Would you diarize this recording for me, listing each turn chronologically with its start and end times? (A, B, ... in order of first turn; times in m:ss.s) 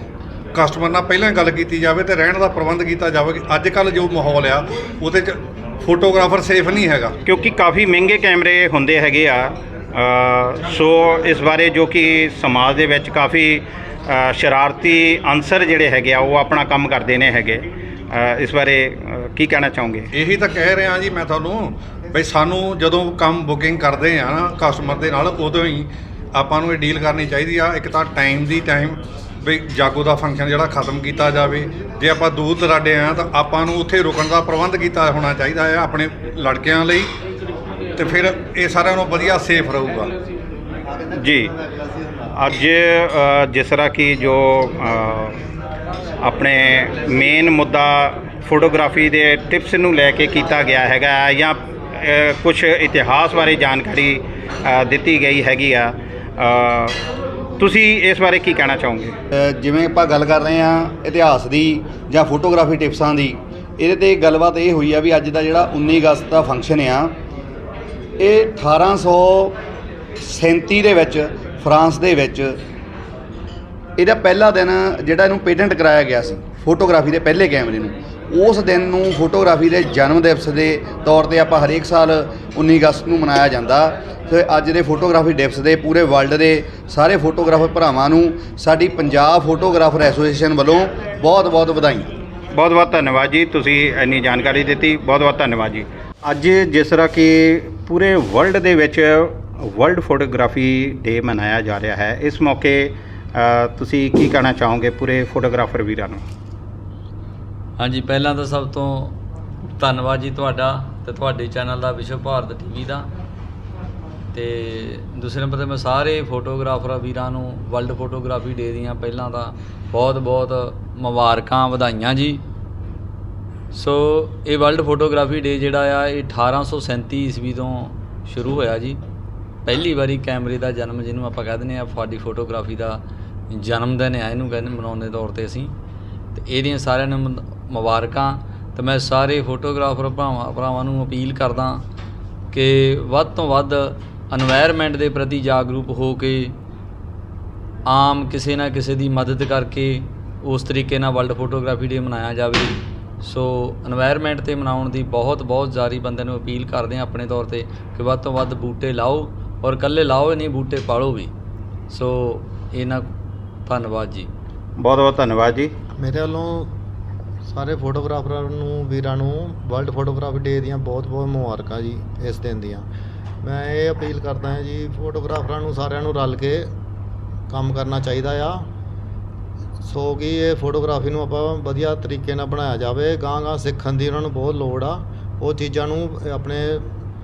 0:00.5-0:07.2 A
0:07.2-0:20.1 B
0:20.1-0:37.1 A
0:38.0-0:40.1 A
0:41.1-0:41.6 B
0:42.3-0:45.4 B
0:46.2-0:57.0 B
0:57.6-0:59.2 B
0:59.3-1:07.2 C
1:08.2-1:09.6 C
1:10.2-1:12.6 C
1:14.0-1:32.2 C
1:32.5-1:46.2 B
1:47.8-1:49.2 D
1:49.8-1:53.1 D
1:54.3-2:02.4 D
2:03.7-2:09.0 D
2:09.7-2:15.7 D
2:16.3-2:21.8 D
2:22.5-2:26.6 D
2:27.9-2:41.3 D
2:41.9-2:43.1 D
2:43.7-2:44.3 D
2:44.8-2:45.7 B
2:46.0-2:46.7 E
2:47.4-2:52.9 E
2:53.4-2:56.7 E
2:57.5-2:58.6 E
2:59.8-3:06.9 E